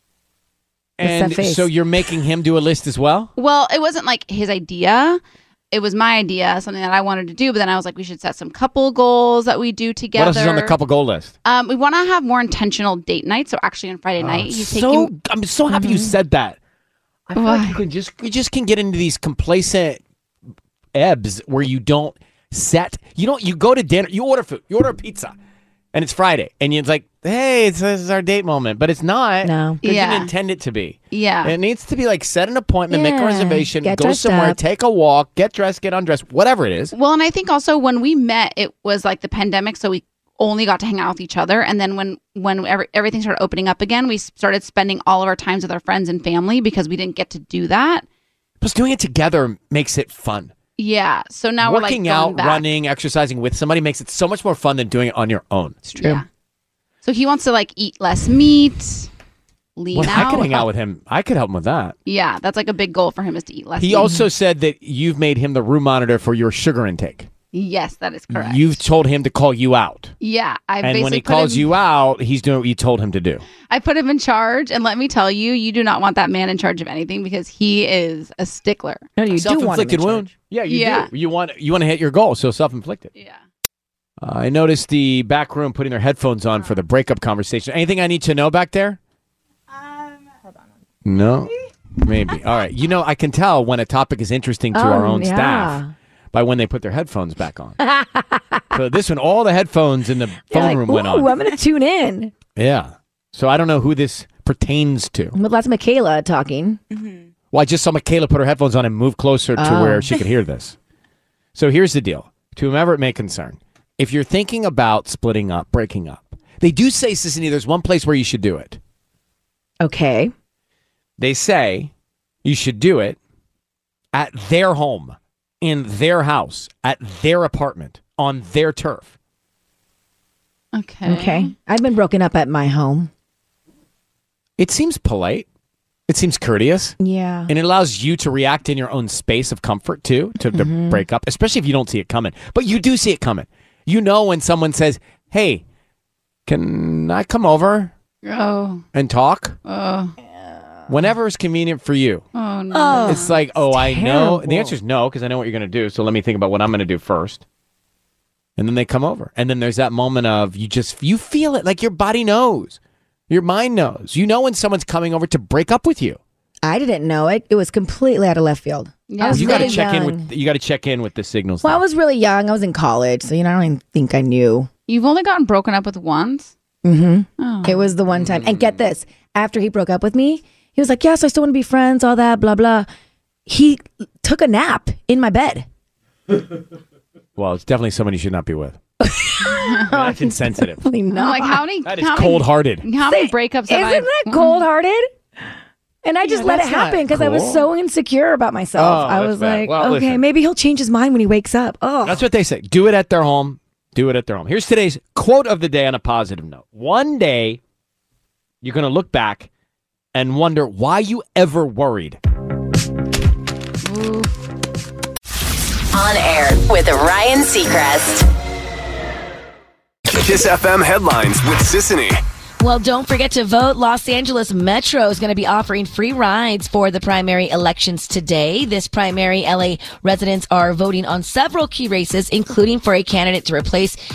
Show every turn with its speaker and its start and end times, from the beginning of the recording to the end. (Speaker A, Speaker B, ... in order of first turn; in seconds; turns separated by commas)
Speaker A: 1.0-3.3, Speaker B: 1.0-1.7, Speaker C: 3.4-5.2, Speaker C: 5.7-10.7, Speaker A: 10.1-11.3, Speaker C: 11.4-15.1, Speaker A: 14.2-16.6, Speaker B: 15.7-16.1, Speaker A: 17.3-20.0, Speaker C: 17.4-17.8, Speaker A: 20.9-25.3, Speaker A: 25.9-36.9, Speaker B: 29.4-29.8, Speaker C: 29.8-30.3, Speaker C: 31.1-31.5, Speaker B: 32.9-34.6, Speaker C: 36.9-48.0, Speaker A: 48.6-50.5, Speaker C: 50.8-52.6, Speaker A: 51.6-55.8, Speaker C: 55.9-56.2, Speaker B: 56.0-56.2, Speaker C: 57.0-59.1, Speaker C: 59.8-60.7, Speaker A: 59.9-61.9, Speaker C: 62.0-64.1, Speaker A: 63.8-67.3, Speaker C: 67.5-68.8, Speaker A: 68.3-70.1, Speaker C: 70.2-71.7, Speaker A: 70.8-73.4, Speaker C: 73.7-79.1, Speaker B: 79.2-80.3, Speaker A: 79.4-83.1, Speaker C: 80.7-81.1, Speaker C: 83.1-83.4, Speaker A: 84.2-89.0, Speaker A: 91.0-95.8, Speaker B: 94.7-95.9, Speaker A: 96.3-97.8, Speaker B: 97.8-98.6, Speaker A: 98.7-101.3, Speaker B: 100.5-102.3, Speaker A: 102.5-105.3, Speaker B: 105.3-106.8, Speaker A: 107.5-110.8, Speaker B: 109.6-110.2, Speaker A: 111.5-118.8, Speaker B: 119.8-120.3, Speaker A: 121.2-121.9, Speaker A: 122.4-123.2, Speaker A: 124.1-129.1, Speaker C: 130.7-131.5, Speaker B: 131.0-133.1, Speaker A: 134.6-135.4, Speaker A: 136.1-136.9, Speaker B: 137.0-137.5, Speaker A: 137.5-145.6, Speaker B: 140.4-141.0, Speaker A: 146.5-147.9, Speaker C: 148.2-148.8, Speaker A: 148.9-149.6, Speaker C: 149.7-150.1, Speaker A: 150.9-152.2, Speaker C: 152.3-153.3, Speaker B: 152.7-154.7, Speaker A: 153.0-157.4, Speaker A: 158.6-162.8, Speaker A: 163.3-166.2, Speaker B: 166.6-170.3, Speaker C: 169.1-169.8, Speaker A: 169.3-171.8, Speaker B: 171.6-174.7, Speaker C: 174.9-176.5, Speaker B: 176.8-182.9, Speaker C: 177.4-177.8, Speaker A: 178.2-178.6, Speaker B: 183.5-185.7, Speaker A: 187.3-188.8, Speaker B: 189.0-191.6, Speaker C: 189.5-189.9, Speaker A: 189.9-190.8, Speaker C: 191.1-194.6, Speaker A: 191.8-192.8, Speaker B: 193.1-195.1, Speaker B: 196.0-202.2, Speaker A: 196.2-197.7, Speaker A: 198.7-200.2, Speaker A: 202.0-207.6, Speaker A: 208.6-209.5, Speaker A: 210.1-212.2, Speaker C: 213.8-214.4, Speaker D: 215.9-218.2, Speaker E: 220.1-222.2, Speaker F: 222.6-234.0